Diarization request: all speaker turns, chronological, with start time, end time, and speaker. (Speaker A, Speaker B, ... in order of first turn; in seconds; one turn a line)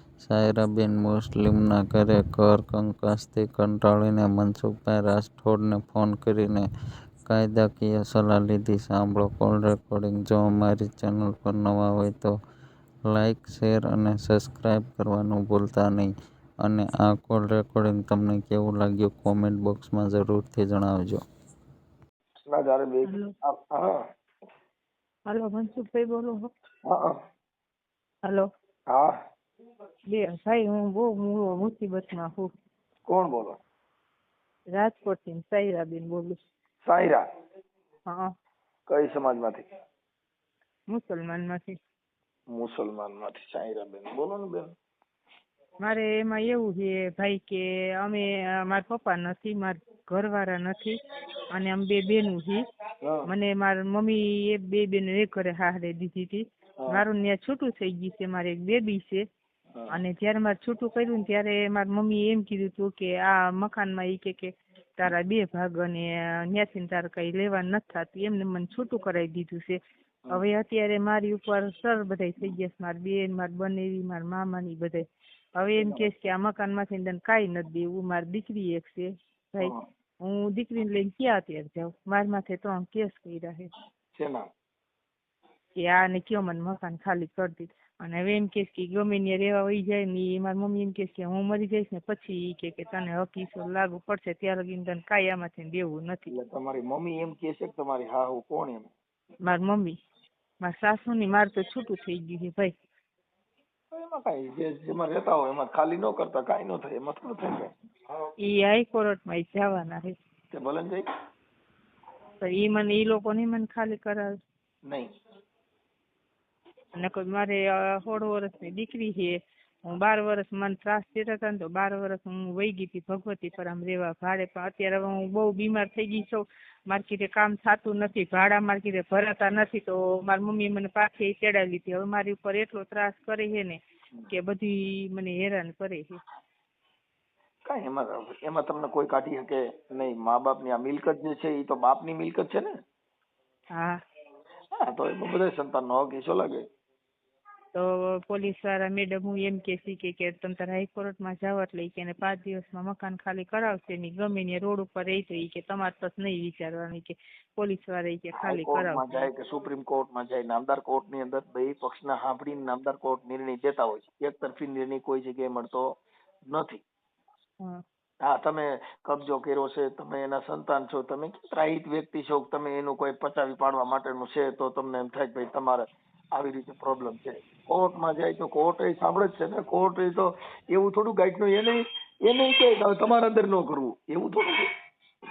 Speaker A: 0.2-6.6
Speaker A: 7.3-12.3
Speaker A: 13.1-16.1
Speaker A: 16.6-21.2
Speaker B: 22.5-24.0
Speaker C: 23.0-23.3
Speaker C: 25.3-26.5
Speaker B: 26.8-27.2
Speaker C: 30.1-32.5
Speaker B: 33.1-33.6
Speaker C: 34.7-36.4
Speaker B: 36.8-37.2
Speaker C: 38.0-38.3
Speaker B: 38.9-39.6
Speaker C: 40.9-41.8
Speaker B: 42.5-44.7
Speaker C: 45.8-52.6
Speaker B: 53.0-53.3
Speaker C: 53.2-59.2
Speaker C: 59.9-83.7
Speaker B: 75.8-76.1
Speaker B: 84.1-84.5
Speaker C: 85.8-96.3
Speaker B: 96.3-98.9
Speaker C: 99.4-100.0
Speaker C: 100.6-102.8
Speaker B: 103.9-107.7
Speaker C: 108.4-110.2
Speaker B: 110.5-111.0
Speaker C: 112.4-114.3
Speaker C: 116.9-136.2
Speaker B: 137.7-142.7
Speaker B: 144.8-146.6
Speaker C: 147.7-159.3
Speaker B: 158.3-165.9
Speaker B: 166.5-166.8
Speaker B: 168.2-184.7